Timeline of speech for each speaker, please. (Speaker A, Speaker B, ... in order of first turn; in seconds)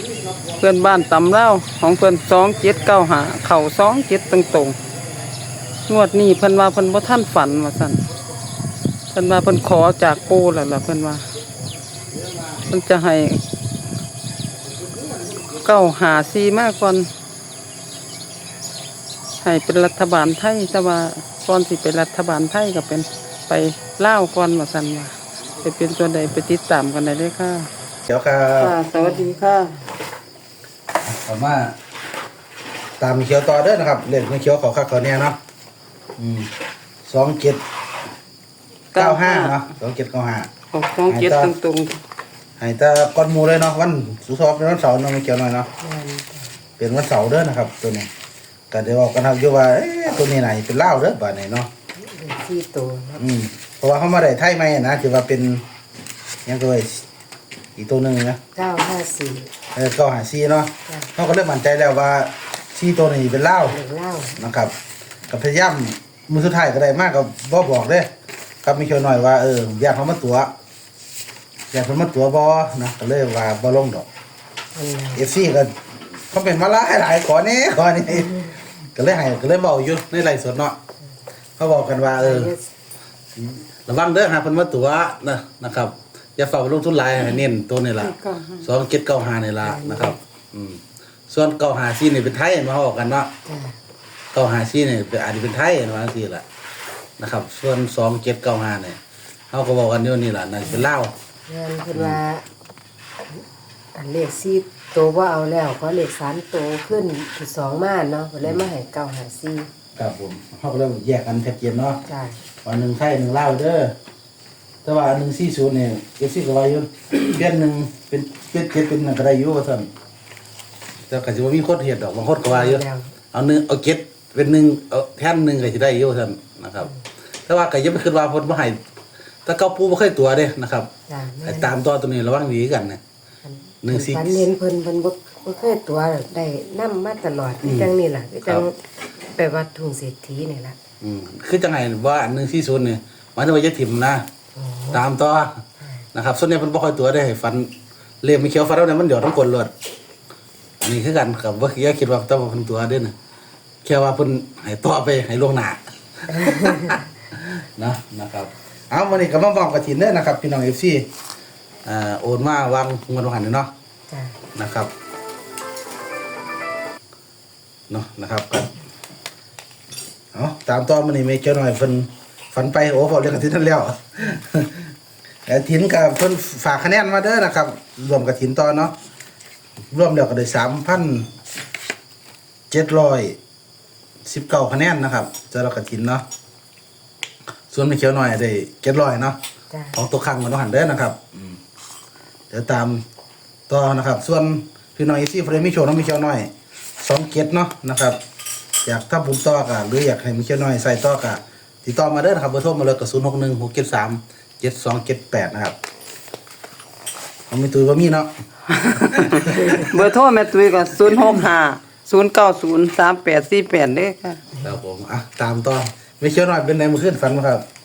Speaker A: 0.5-4.8, 5.9-8.1, 9.1-11.3, 12.6-13.4, 15.5-17.1, 19.4-27.7, 28.6-29.7, 38.9-39.6, 40.7-42.0, 88.0-88.7, 208.7-214.4
Speaker B: 28.1-28.8, 31.0-31.8, 33.0-35.4, 36.2-36.5, 37.1-37.6, 39.0-40.5, 41.1-41.5, 42.6-45.7, 46.8-48.1, 48.7-51.7, 53.2-55.6, 56.5-57.1, 57.8-58.4, 59.7-63.8, 64.4-64.8, 65.3-68.1, 68.6-70.5, 71.7-74.1, 75.2-75.8, 76.3-80.8, 81.6-82.5, 83.4-93.3, 94.3-96.5, 97.2-99.0, 99.5-101.1, 101.9-102.2, 110.0-112.0, 112.6-114.0, 114.8-119.9, 121.1-126.9, 127.5-128.8, 129.5-130.9, 131.4-133.0, 133.8-134.5, 137.6-137.9, 141.0-144.3, 144.9-145.6, 146.2-149.7, 150.8-153.2, 153.8-161.1, 161.8-163.7, 164.6-164.9, 167.9-168.7, 170.3-174.9, 175.5-178.9, 179.9-181.3, 182.7-183.4, 184.2-186.2, 187.7-189.4, 189.9-191.6, 192.5-193.0, 193.7-198.2, 198.8-205.8, 207.5-208.3, 209.2-210.0, 214.6-217.6
Speaker C: 29.0-29.8, 45.8-46.6, 52.0-53.2, 58.5-59.5, 63.6-64.4, 74.8-75.3, 82.2-82.7, 89.6-90.2, 93.5-93.8, 101.5-102.5, 103.3-109.7, 112.1-112.4, 122.5-123.1, 131.1-131.7, 133.4-138.8, 139.3-140.8, 144.6-145.1, 145.8-146.1, 156.3-157.0, 164.1-164.4, 189.7-190.0